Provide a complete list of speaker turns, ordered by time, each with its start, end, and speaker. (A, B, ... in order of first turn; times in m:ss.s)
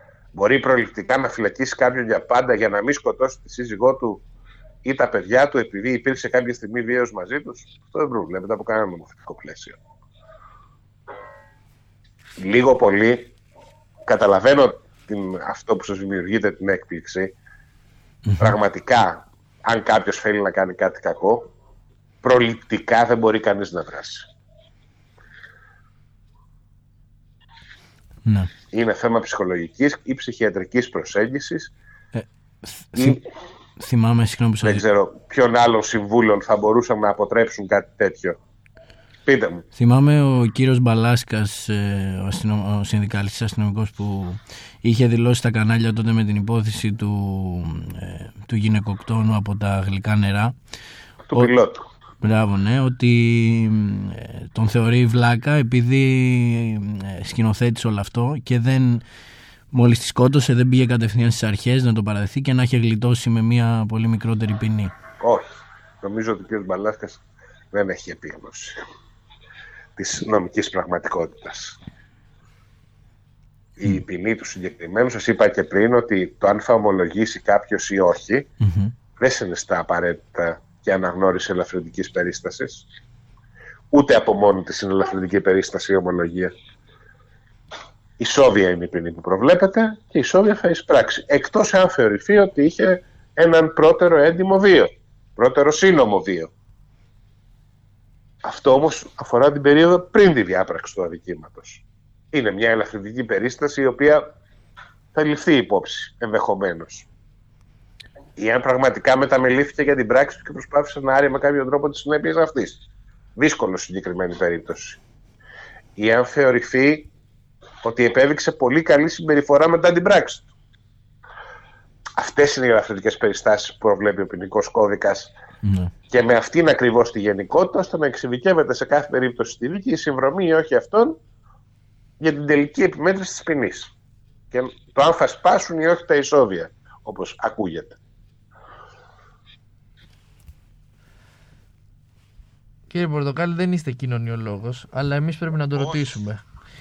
0:00.3-0:04.2 A
0:04.8-0:09.8 A
0:12.4-0:13.3 A
0:14.0-0:17.3 A
0:18.3-0:18.6 B
0:18.4-0:21.5 A
0:22.2-0:24.3 A
0:28.2-0:28.5 B
0:28.7-0:31.7 A
0:32.1-0:33.2 B
0:33.0-0:33.2 A
0:33.8-0:34.8 B
0:34.6-0:38.4 A
0:39.3-0:39.6 A
0:39.8-0:50.6 B
0:51.3-0:51.8 A
0:52.2-0:59.0 B
0:59.7-1:04.9 B
1:05.2-1:05.5 A
1:06.0-1:08.8 A
1:10.0-1:11.8 A
1:13.8-1:18.5 A
1:18.6-1:18.9 B
1:19.2-1:22.9 A
1:23.9-1:26.5 A
1:28.2-1:36.5 A
1:38.4-1:44.2 A
1:45.1-1:47.1 A
1:48.4-1:52.8 A
1:53.4-1:55.0 A
1:56.0-1:57.1 A
1:57.8-2:00.5 A
2:02.2-2:05.3 A
2:05.6-2:05.9 B
2:06.1-2:11.2 A
2:12.2-2:13.9 A
2:14.5-2:18.0 A
2:22.9-2:26.4 C
2:25.8-2:26.0 A